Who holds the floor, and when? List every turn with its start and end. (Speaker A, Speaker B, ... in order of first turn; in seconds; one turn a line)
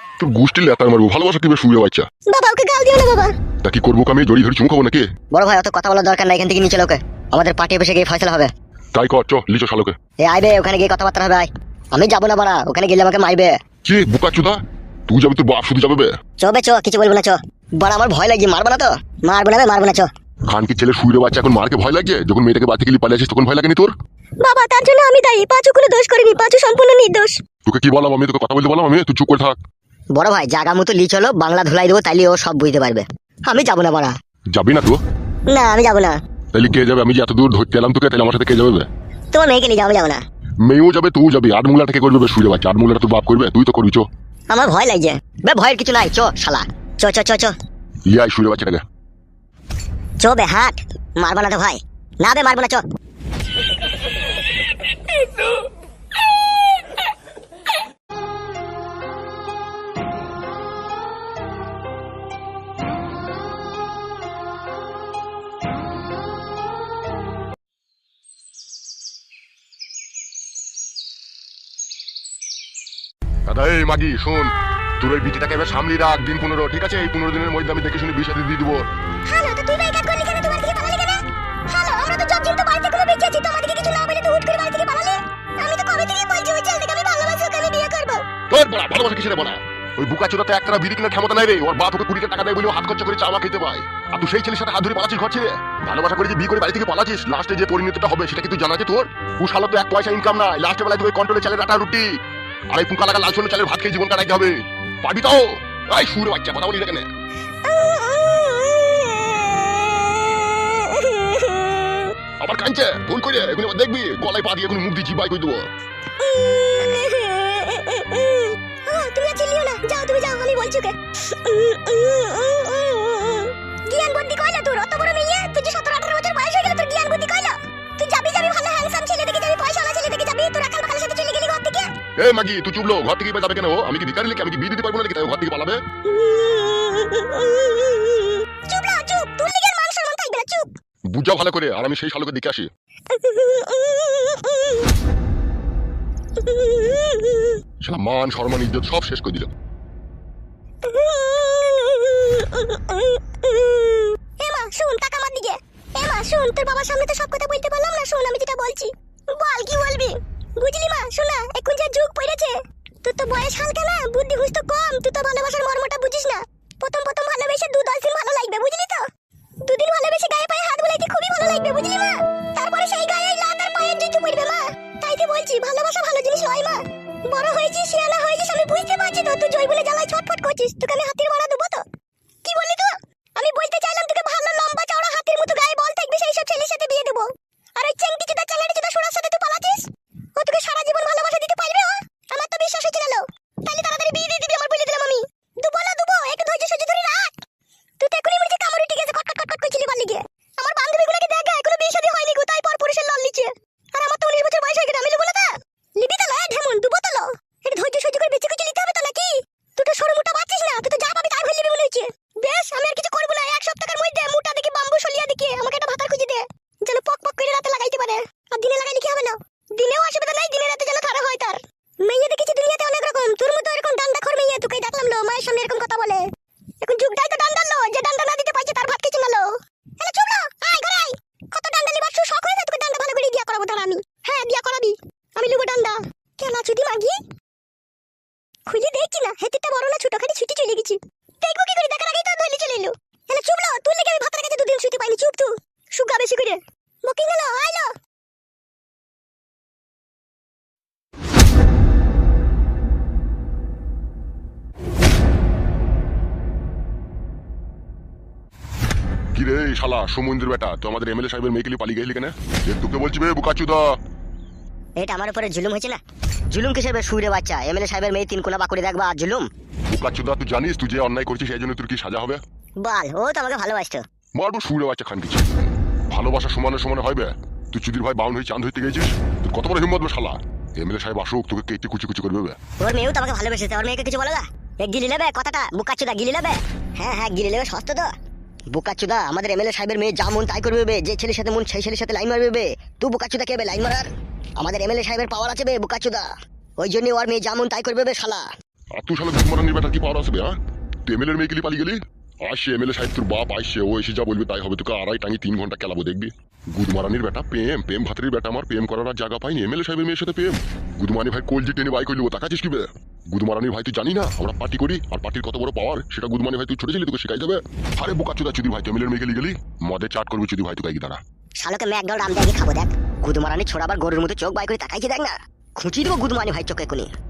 Speaker A: 0.2-2.1
Speaker B: 2.3-3.1
Speaker C: 2.3-3.3
Speaker A: 3.6-5.1
Speaker B: 5.3-8.5
Speaker A: 8.9-10.0
Speaker B: 10.3-13.5
Speaker A: 13.8-16.1
Speaker B: 16.4-20.1
Speaker A: 20.5-23.9
Speaker C: 24.4-27.3
Speaker A: 27.6-29.6
Speaker B: 30.1-34.1
Speaker A: 34.5-35.0
Speaker B: 35.5-36.2
Speaker A: 36.5-38.9
Speaker B: 39.3-40.2
Speaker A: 40.7-44.1
Speaker B: 44.5-47.5
Speaker A: 48.1-48.8
Speaker B: 50.2-52.8
Speaker A: 73.5-78.8
Speaker B: 79.3-81.2
Speaker C: 79.4-81.0
Speaker C: 81.7-82.2
Speaker B: 81.7-88.2
Speaker C: 83.4-83.7
Speaker A: 88.5-102.2
Speaker A: 102.7-107.1
Speaker C: 107.7-112.1
Speaker A: 112.4-115.7
Speaker C: 116.2-130.9
Speaker B: 119.2-120.0
Speaker B: 123.9-131.9
Speaker A: 132.2-135.8
Speaker C: 136.1-139.7
Speaker B: 138.7-140.7
Speaker A: 141.1-142.7
Speaker C: 143.1-144.8
Speaker C: 146.4-147.6
Speaker A: 147.8-149.5
Speaker C: 150.8-158.9
Speaker B: 154.4-155.6
Speaker B: 156.5-160.1
Speaker C: 159.4-169.0
Speaker B: 160.6-162.5
Speaker B: 163.9-169.0
Speaker C: 169.7-181.8
Speaker B: 169.8-170.8
Speaker C: 182.5-187.3
Speaker B: 184.8-185.2
Speaker C: 187.8-189.9
Speaker B: 188.8-189.2
Speaker C: 190.4-197.3
Speaker B: 190.8-191.4
Speaker B: 193.8-195.1
Speaker B: 195.8-197.1
Speaker C: 198.0-205.5
Speaker B: 198.1-200.2
Speaker B: 200.9-203.4
Speaker B: 204.1-205.5
Speaker C: 206.0-226.0
Speaker B: 206.1-209.3
Speaker B: 209.8-212.0
Speaker B: 212.6-215.4
Speaker B: 215.9-216.4
Speaker B: 217.2-220.1
Speaker B: 221.2-221.5
Speaker B: 222.1-226.2
Speaker C: 226.8-229.5
Speaker B: 227.0-229.4
Speaker C: 230.0-235.9
Speaker B: 230.2-234.9
Speaker B: 235.6-236.0
Speaker C: 236.4-237.2
Speaker B: 236.6-237.1
Speaker C: 238.7-245.5
Speaker B: 239.1-240.9
Speaker B: 241.4-247.8
Speaker C: 246.0-246.6
Speaker C: 247.1-247.9
Speaker A: 259.4-264.0
Speaker B: 265.0-269.5
Speaker A: 269.9-272.4
Speaker B: 272.8-274.0
Speaker A: 274.4-282.6
Speaker B: 282.8-288.1
Speaker B: 288.7-296.3
Speaker B: 296.8-298.5
Speaker A: 299.0-300.6
Speaker A: 301.1-321.2
Speaker B: 321.6-327.1